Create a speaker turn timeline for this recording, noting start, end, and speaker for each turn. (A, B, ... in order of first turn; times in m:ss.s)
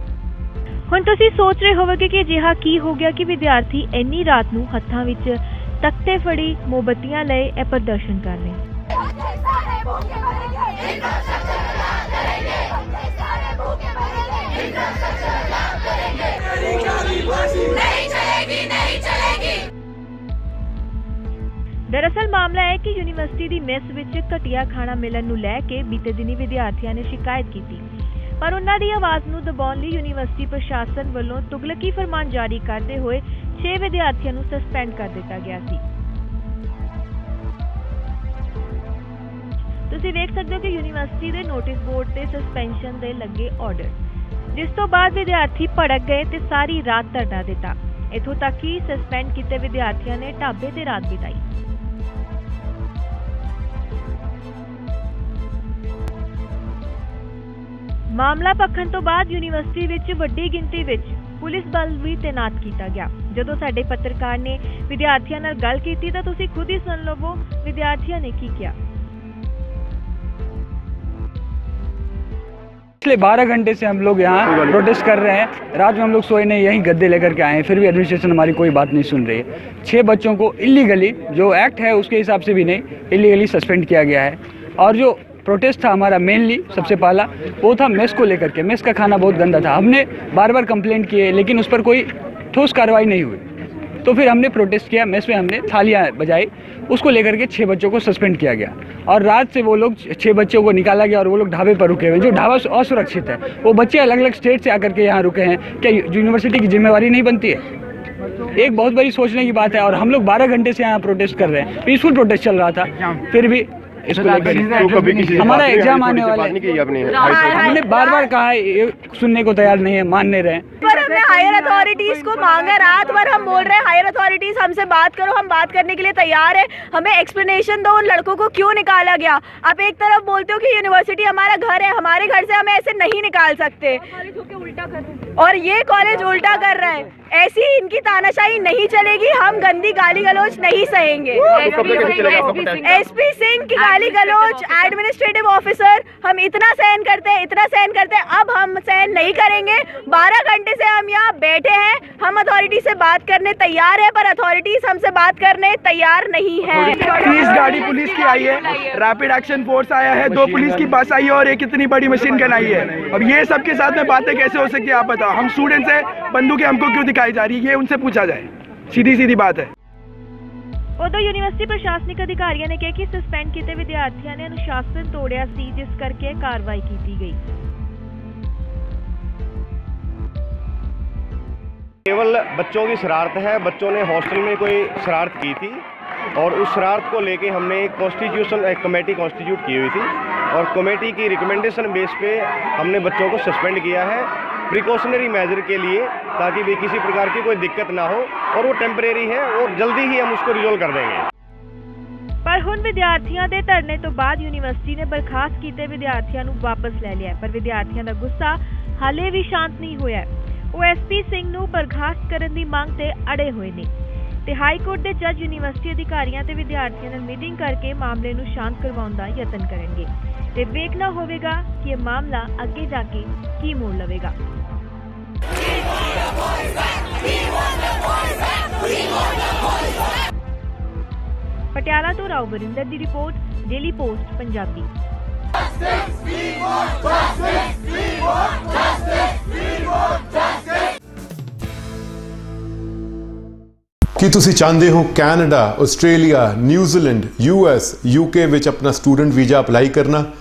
0:00.9-0:08.6 A
0:21.9-0:27.8 A
0:28.4-0:35.8 A
0:39.9-0:43.9 A
0:44.5-0:51.4 A
0:58.1-1:08.7 A
1:13.0-1:33.4 B
1:34.0-1:47.6 B
1:48.5-1:56.6 B
1:54.8-1:57.8 C
1:57.3-1:58.3 D
1:57.4-2:00.7 B
2:00.8-2:14.2 D
2:15.4-2:36.9 D
2:21.4-2:22.9 C
2:36.9-2:49.7 E
2:51.0-2:57.4 A
3:02.1-3:05.8 C
3:06.4-3:21.2 C
3:22.4-3:33.9 A
3:34.4-3:44.3 A
3:51.7-3:54.9 A
4:04.2-4:10.3 F